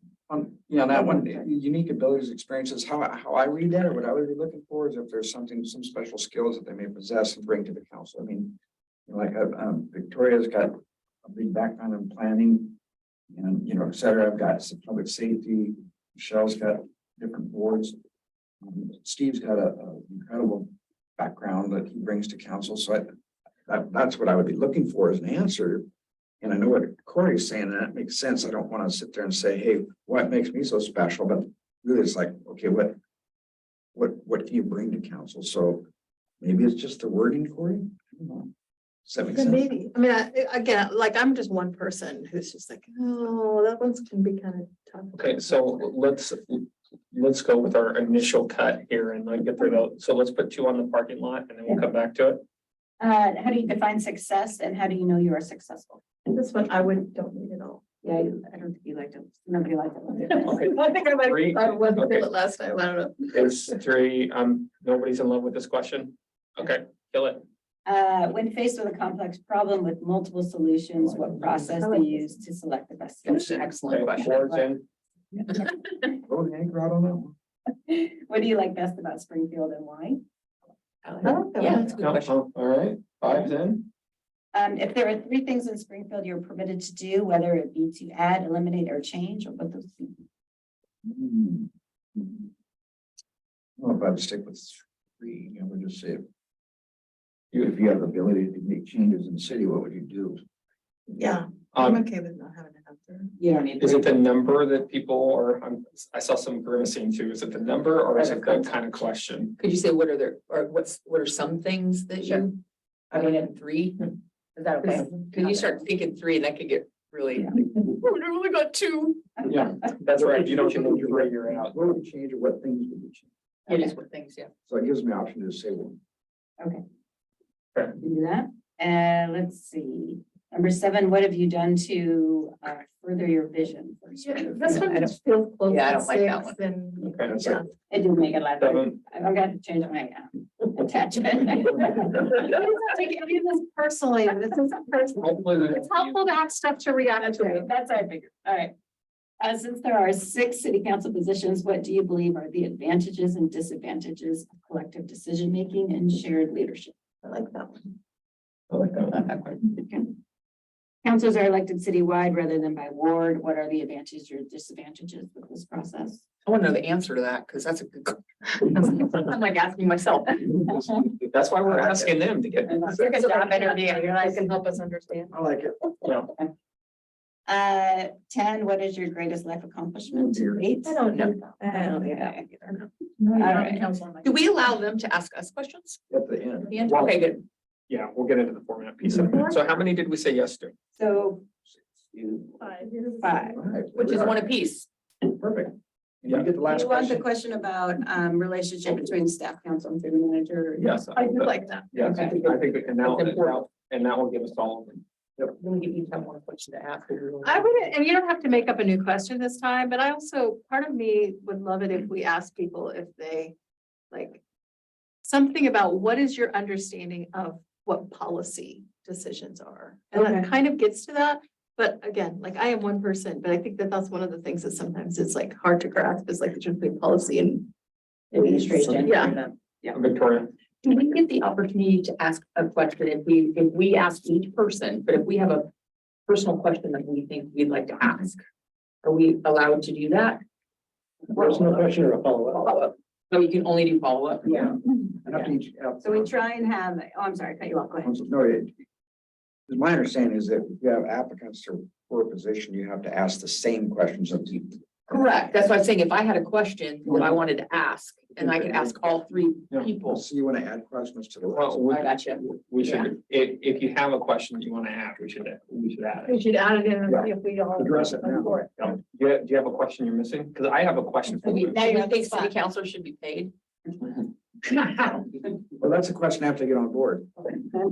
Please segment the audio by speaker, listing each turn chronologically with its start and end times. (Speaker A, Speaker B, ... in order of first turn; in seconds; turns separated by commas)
Speaker A: 0.3-12.8, Speaker B: 0.9-1.4, Speaker A: 13.3-18.0, Speaker A: 18.6-23.1, Speaker A: 23.7-25.9, Speaker A: 26.4-33.0, Speaker A: 33.9-35.9, Speaker A: 36.4-38.5, Speaker A: 39.0-39.6, Speaker C: 39.3-45.3, Speaker D: 45.1-52.4, Speaker B: 53.0-56.0, Speaker C: 56.3-57.8, Speaker B: 58.0-60.7, Speaker C: 60.3-63.4, Speaker D: 60.6-62.2, Speaker D: 63.3-67.4, Speaker B: 67.8-74.7, Speaker A: 71.0-71.6, Speaker E: 73.2-74.4, Speaker D: 73.9-74.8, Speaker A: 76.2-77.3, Speaker B: 77.9-80.2, Speaker E: 81.0-82.3, Speaker C: 81.2-81.7, Speaker D: 81.8-83.8, Speaker B: 84.5-90.2, Speaker A: 91.0-92.5, Speaker A: 93.8-96.2, Speaker A: 97.5-100.4, Speaker C: 101.1-103.3, Speaker D: 101.7-102.0, Speaker E: 103.4-104.1, Speaker B: 103.6-103.9, Speaker D: 103.8-109.5, Speaker E: 108.1-108.7, Speaker E: 109.6-112.6, Speaker E: 113.1-114.1, Speaker B: 114.6-115.8, Speaker E: 114.8-119.3, Speaker D: 119.5-121.8, Speaker A: 120.1-123.3, Speaker E: 123.7-124.5, Speaker B: 123.7-123.9, Speaker A: 124.7-126.0, Speaker B: 128.0-134.9, Speaker C: 134.2-137.6, Speaker E: 134.8-135.1, Speaker E: 135.7-136.5, Speaker D: 137.1-137.6, Speaker B: 137.9-142.5, Speaker D: 138.6-139.0, Speaker C: 142.4-145.2, Speaker D: 145.2-146.2, Speaker C: 145.7-147.6, Speaker B: 147.2-148.7, Speaker B: 149.4-156.9, Speaker C: 157.2-157.8, Speaker D: 158.7-159.2, Speaker E: 159.1-159.6, Speaker B: 159.6-160.1, Speaker B: 161.0-166.2, Speaker E: 166.4-170.7, Speaker D: 171.2-173.0, Speaker E: 171.6-172.2, Speaker B: 172.7-174.5, Speaker E: 173.0-174.3, Speaker C: 174.9-175.3, Speaker A: 175.3-175.8, Speaker D: 176.0-176.3, Speaker B: 177.5-182.8, Speaker A: 180.1-180.6, Speaker E: 181.1-181.6, Speaker B: 183.3-183.8, Speaker E: 184.2-186.0, Speaker A: 186.1-186.7, Speaker E: 186.6-187.4, Speaker D: 186.8-187.2, Speaker D: 187.9-190.7, Speaker B: 190.9-191.4, Speaker B: 192.1-193.6, Speaker C: 192.6-193.5, Speaker A: 193.6-194.4, Speaker E: 193.9-194.9, Speaker A: 195.2-197.2, Speaker B: 196.7-201.0, Speaker D: 200.8-205.0, Speaker C: 201.1-201.9, Speaker E: 202.0-203.6, Speaker E: 205.5-207.8, Speaker C: 207.5-213.5, Speaker C: 214.1-214.4, Speaker C: 215.2-227.7, Speaker B: 220.1-220.5, Speaker B: 228.3-230.0, Speaker C: 229.0-229.3, Speaker D: 229.9-230.5, Speaker E: 230.8-235.7, Speaker E: 236.3-238.4, Speaker E: 239.0-240.4, Speaker E: 241.4-241.8, Speaker D: 241.4-242.6, Speaker E: 242.6-244.7, Speaker B: 244.4-244.7, Speaker A: 244.5-246.3, Speaker B: 246.0-248.1, Speaker A: 248.0-248.7, Speaker A: 249.7-254.8, Speaker E: 255.1-260.2, Speaker A: 260.1-261.9, Speaker D: 261.5-266.4, Speaker E: 261.9-263.1, Speaker C: 266.3-268.5, Speaker D: 267.1-271.8, Speaker B: 271.4-272.5, Speaker E: 271.4-273.5, Speaker E: 274.7-275.4, Speaker A: 275.8-277.3